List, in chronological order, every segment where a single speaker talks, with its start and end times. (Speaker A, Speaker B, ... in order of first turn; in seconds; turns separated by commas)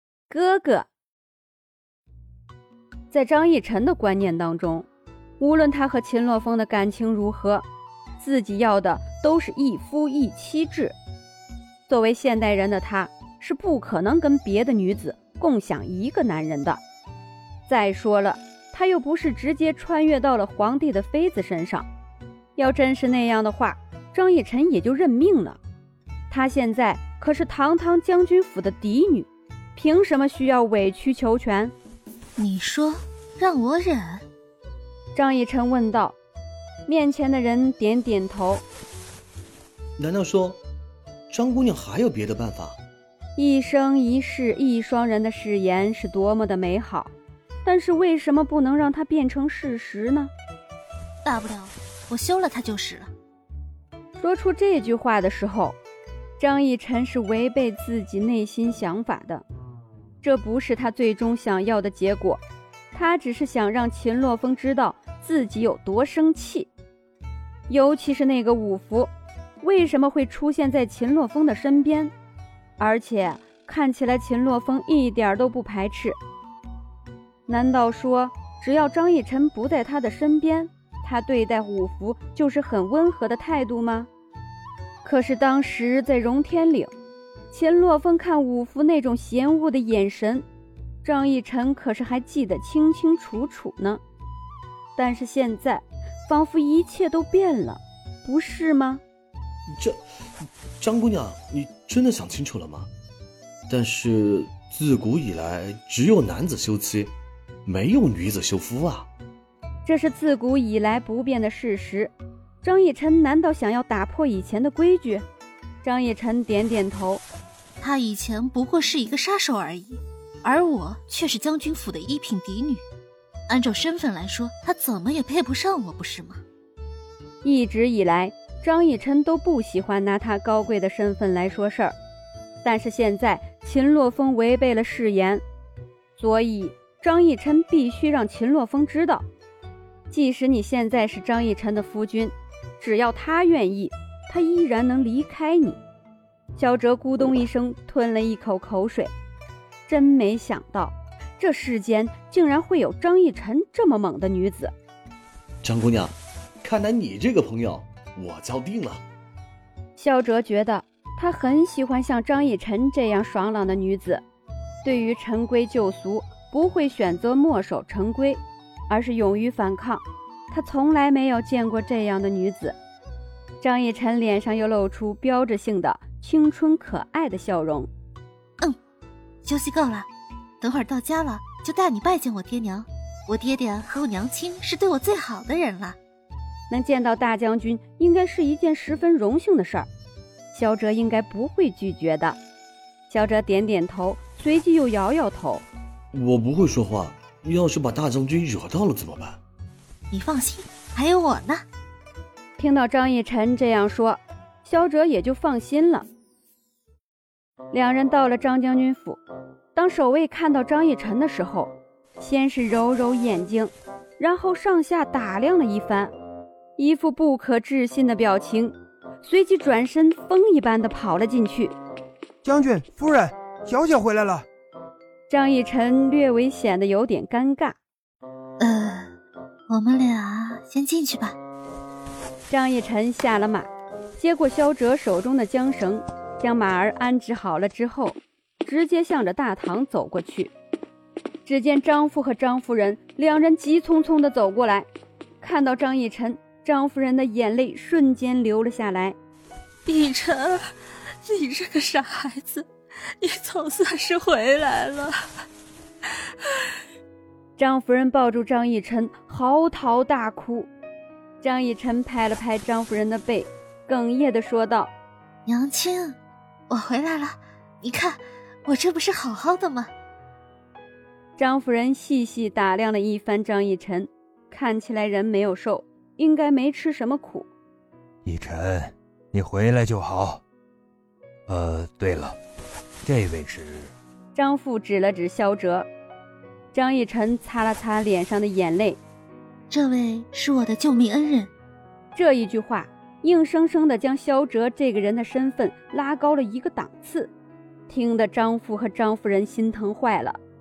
Speaker A: 0.3-0.9, Speaker A: 3.1-4.9, Speaker A: 5.4-7.7, Speaker A: 8.2-11.0, Speaker A: 11.9-16.8, Speaker A: 17.7-21.9, Speaker A: 22.6-25.6, Speaker A: 26.3-31.7, Speaker B: 32.4-34.2, Speaker A: 35.1-36.2, Speaker A: 36.9-38.6, Speaker C: 40.0-40.6, Speaker C: 41.3-42.8, Speaker A: 43.4-47.1, Speaker A: 47.6-50.3, Speaker B: 51.2-53.1, Speaker A: 54.2-55.8, Speaker A: 56.4-59.4, Speaker A: 60.2-62.4, Speaker A: 62.9-66.7, Speaker A: 67.7-69.1, Speaker A: 69.6-72.1, Speaker A: 72.8-76.2, Speaker A: 77.5-84.1, Speaker A: 85.0-86.9, Speaker A: 87.5-90.5, Speaker A: 91.0-94.0, Speaker A: 95.0-99.0, Speaker C: 100.8-102.9, Speaker C: 103.7-107.1, Speaker C: 107.7-109.1, Speaker A: 109.8-115.3, Speaker A: 115.8-117.2, Speaker B: 117.8-122.8, Speaker B: 123.5-126.4, Speaker A: 127.4-132.0, Speaker A: 132.6-135.4, Speaker A: 136.2-139.3, Speaker A: 140.1-145.8, Speaker A: 146.6-149.1, Speaker A: 149.9-154.7, Speaker C: 155.6-159.0, Speaker A: 160.0-164.2, Speaker A: 164.8-172.8, Speaker A: 173.6-177.9, Speaker B: 179.4-180.1, Speaker B: 180.6-186.0, Speaker A: 186.7-189.9, Speaker A: 190.5-192.4, Speaker A: 193.1-195.7, Speaker C: 196.1-199.4, Speaker B: 200.1-201.6, Speaker A: 202.6-206.1, Speaker A: 207.7-209.2, Speaker A: 209.8-216.1, Speaker A: 216.8-221.7, Speaker D: 222.4-224.5, Speaker A: 225.3-227.8, Speaker B: 228.6-229.1, Speaker B: 229.7-231.4, Speaker A: 232.5-240.5, Speaker A: 241.4-244.9, Speaker A: 245.4-249.2, Speaker B: 249.9-250.7, Speaker B: 251.2-252.7, Speaker B: 253.2-255.1, Speaker A: 257.6-260.7, Speaker A: 261.4-264.9, Speaker B: 265.5-266.2, Speaker B: 266.7-269.9, Speaker A: 271.4-277.5, Speaker E: 278.3-280.4, Speaker E: 281.5-282.4, Speaker E: 283.1-283.8, Speaker A: 284.3-285.9, Speaker A: 286.7-289.0, Speaker B: 289.7-291.5, Speaker A: 292.1-297.3, Speaker A: 297.9-300.4